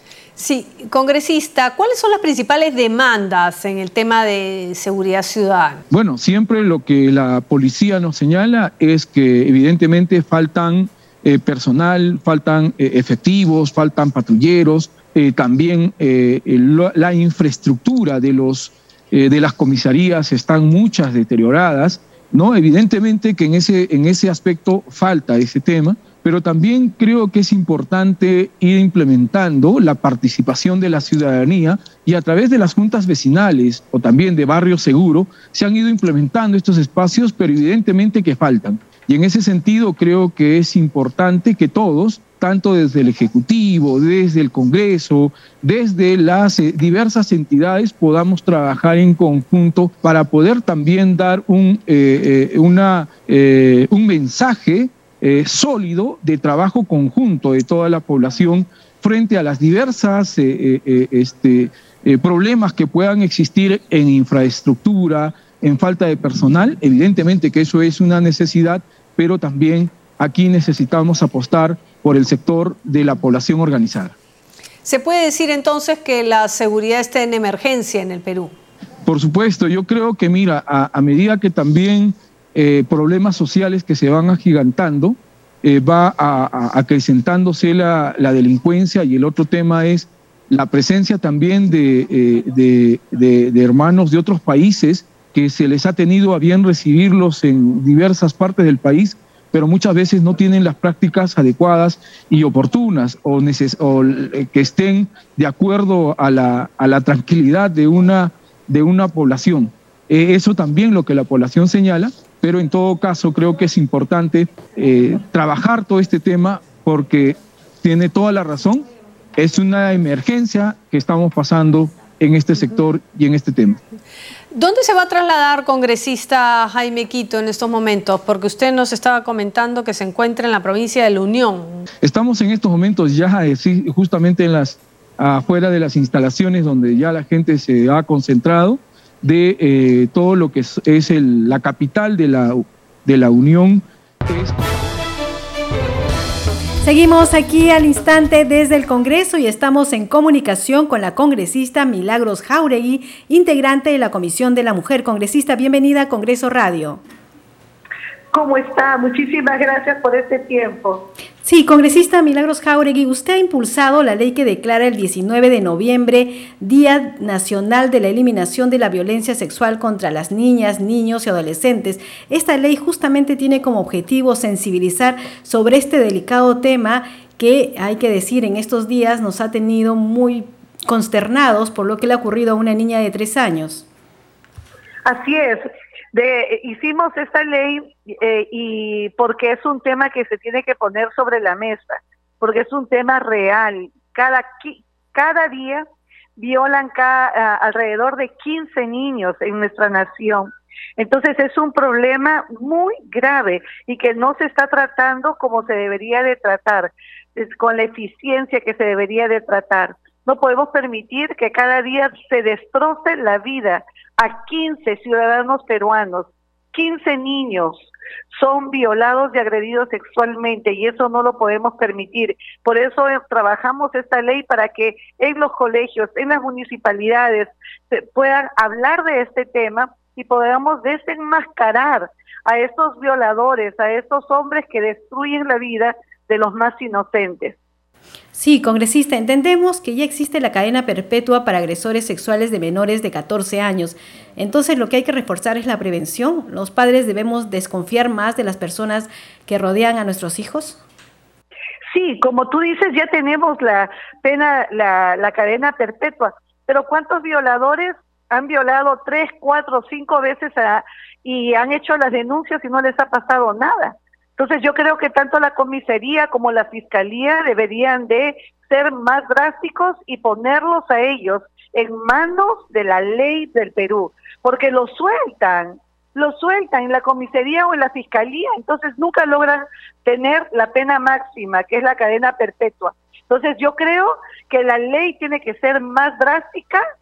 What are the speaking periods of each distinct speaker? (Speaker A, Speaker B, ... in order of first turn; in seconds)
Speaker A: 0.4-5.8, 74.8-78.5, 124.5-131.8
Speaker B: 5.9-74.1, 79.0-123.8, 132.0-145.0
Speaker C: 146.8-157.0, 161.4-183.8, 238.3-250.8
Speaker D: 158.3-161.1, 185.1-195.8, 196.4-217.8, 218.3-237.6, 251.9-286.8